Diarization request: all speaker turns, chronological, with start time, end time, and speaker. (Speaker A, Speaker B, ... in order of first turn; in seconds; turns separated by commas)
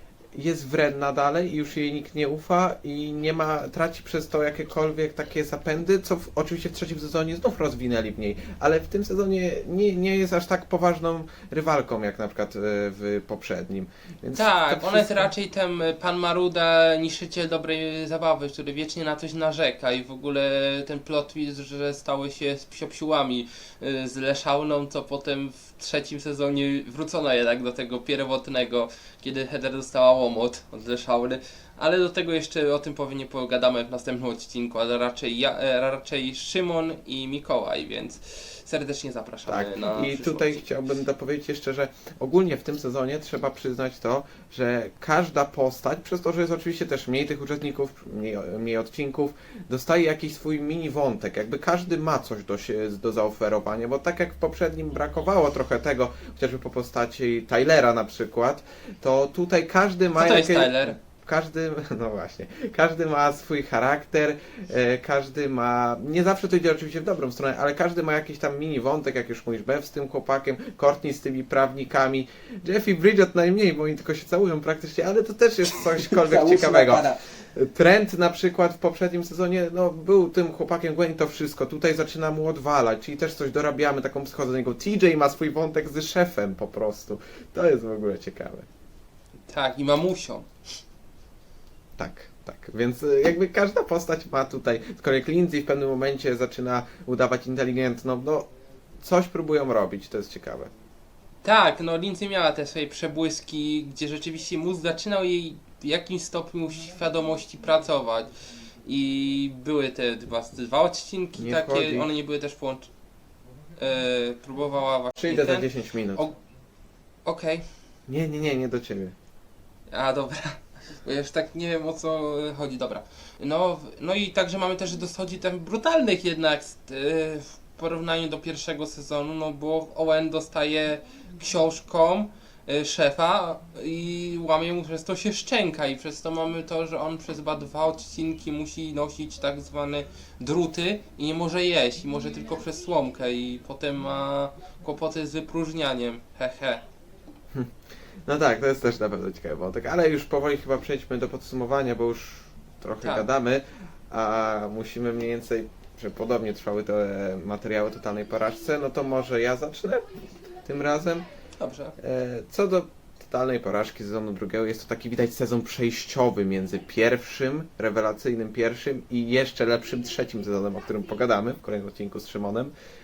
Speaker A: 0.3-15.3, Speaker B: 14.3-40.6, Speaker A: 39.5-88.7, Speaker B: 60.1-61.0, Speaker B: 89.5-90.5, Speaker A: 92.0-98.5, Speaker A: 99.0-100.7, Speaker B: 101.4-108.3, Speaker B: 108.8-112.9, Speaker A: 111.4-112.1, Speaker B: 113.8-116.4, Speaker A: 115.2-116.3, Speaker B: 117.2-117.6, Speaker A: 118.1-119.2, Speaker B: 119.9-146.8, Speaker A: 148.3-161.2, Speaker B: 153.0-153.3, Speaker B: 161.6-161.9, Speaker A: 162.0-172.7